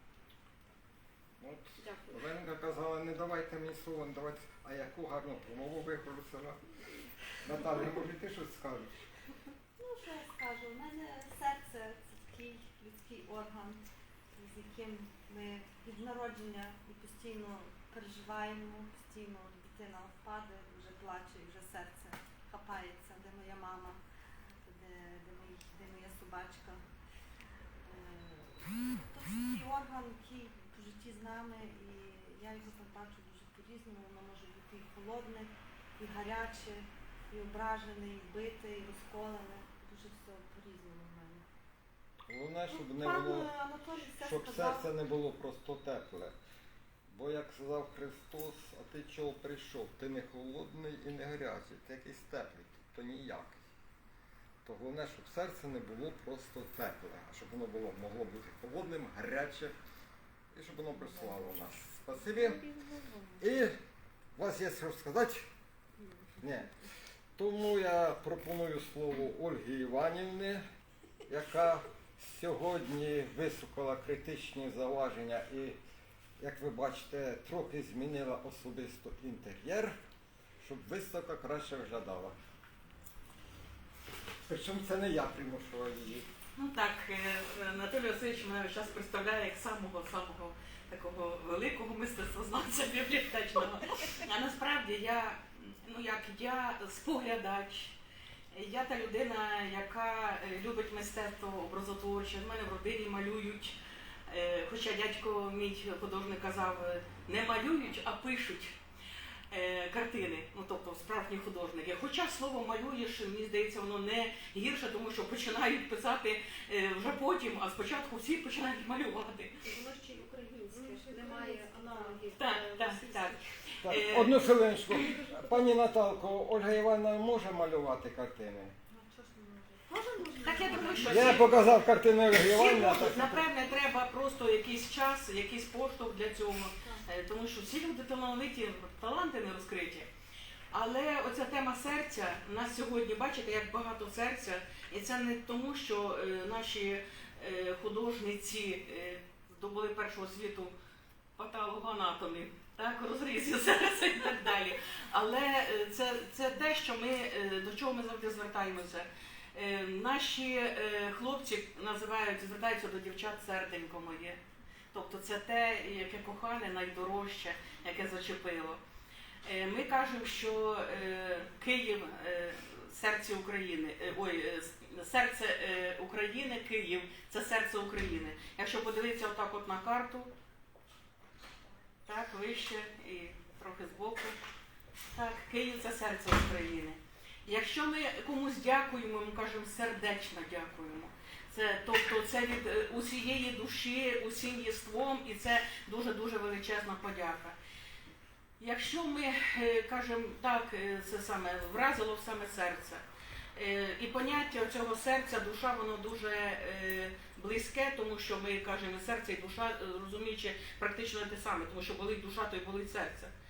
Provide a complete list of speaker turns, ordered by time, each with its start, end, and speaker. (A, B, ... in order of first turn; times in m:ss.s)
0:01.4-0:06.6 A
0:01.8-0:02.2 B
0:07.3-0:09.1 A
0:09.8-0:24.0 C
0:24.6-0:26.8 C
0:27.8-0:41.4 C
0:42.3-0:43.5 A
0:42.7-0:44.9 C
0:44.2-0:46.3 A
0:47.1-0:53.6 A
0:54.6-0:59.8 A
1:00.5-1:02.7 A
1:02.8-1:03.2 C
1:03.4-1:03.7 A
1:04.4-1:05.4 A
1:06.4-1:06.7 A
1:07.4-1:10.6 A
1:11.3-1:15.8 A
1:16.4-1:20.0 A
1:20.6-1:22.4 A
1:24.4-1:26.3 A
1:26.6-1:37.9 D
1:38.5-1:43.8 D
1:44.3-1:48.8 D
1:49.5-1:59.6 D
1:59.6-2:03.4 B
2:00.8-2:02.2 C
2:02.3-2:05.0 D
2:03.8-2:08.7 A
2:08.9-2:11.5 C
2:09.9-2:11.3 B
2:10.4-2:11.5 D
2:11.0-2:13.4 A
2:12.4-2:20.1 D
2:20.7-2:30.7 D
2:31.4-2:44.4 D
2:44.9-2:48.8 D
2:49.4-3:00.3 D
3:02.0-3:04.4 D
3:05.1-3:17.6 D
3:18.6-3:23.0 D
3:23.6-3:33.3 D